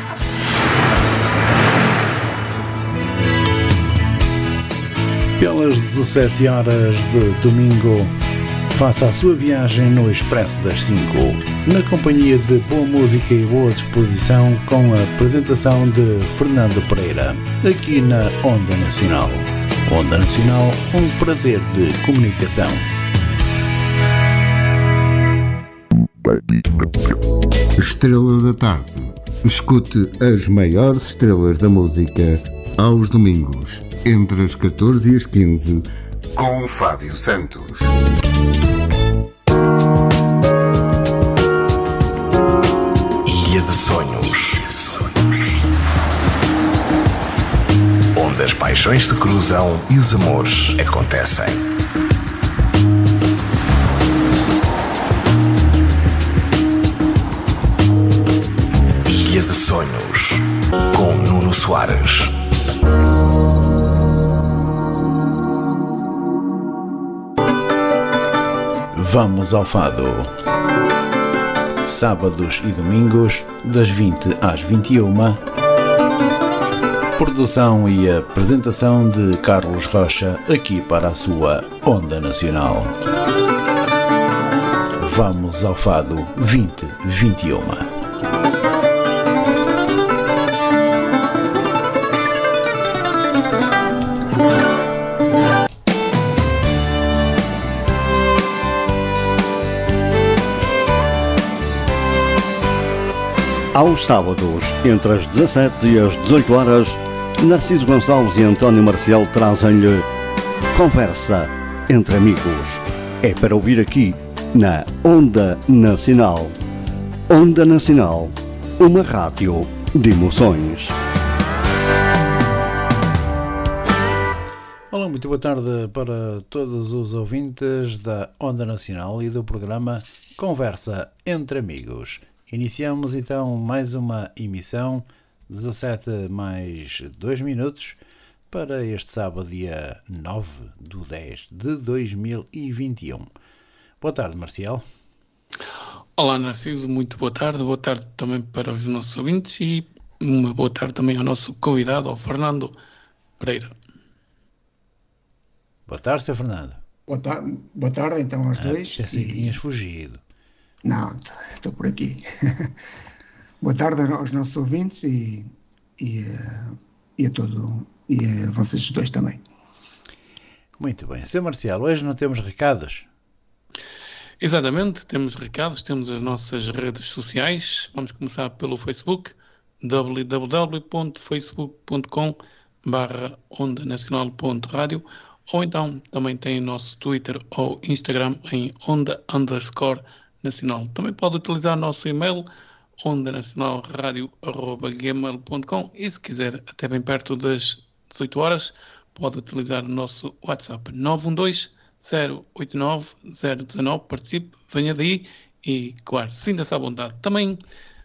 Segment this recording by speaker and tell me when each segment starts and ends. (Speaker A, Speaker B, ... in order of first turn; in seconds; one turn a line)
Speaker A: 5.4-8.1
Speaker A: 8.7-22.9
Speaker B: 26.2-27.1
Speaker B: 27.8-37.9
Speaker C: 43.2-45.5
Speaker C: 48.1-51.6
Speaker C: 59.0-62.4
Speaker A: 68.9-70.3
Speaker A: 71.8-75.4
Speaker A: 77.2-82.9
Speaker A: 85.0-87.9
Speaker D: 103.7-110.1
Speaker D: 110.7-116.5
Speaker D: 117.3-120.9
Speaker A: 124.9-138.0
Speaker A: 138.5-143.3
Speaker A: 144.0-144.8
Speaker E: 146.2-152.7
Speaker E: 153.4-153.7
Speaker A: 155.9-156.8
Speaker F: 157.1-159.6
Speaker A: 158.6-160.2
Speaker F: 160.8-162.7
Speaker F: 163.6-169.4
Speaker A: 170.8-173.1
Speaker E: 174.4-192.5
Speaker E: 193.0-207.6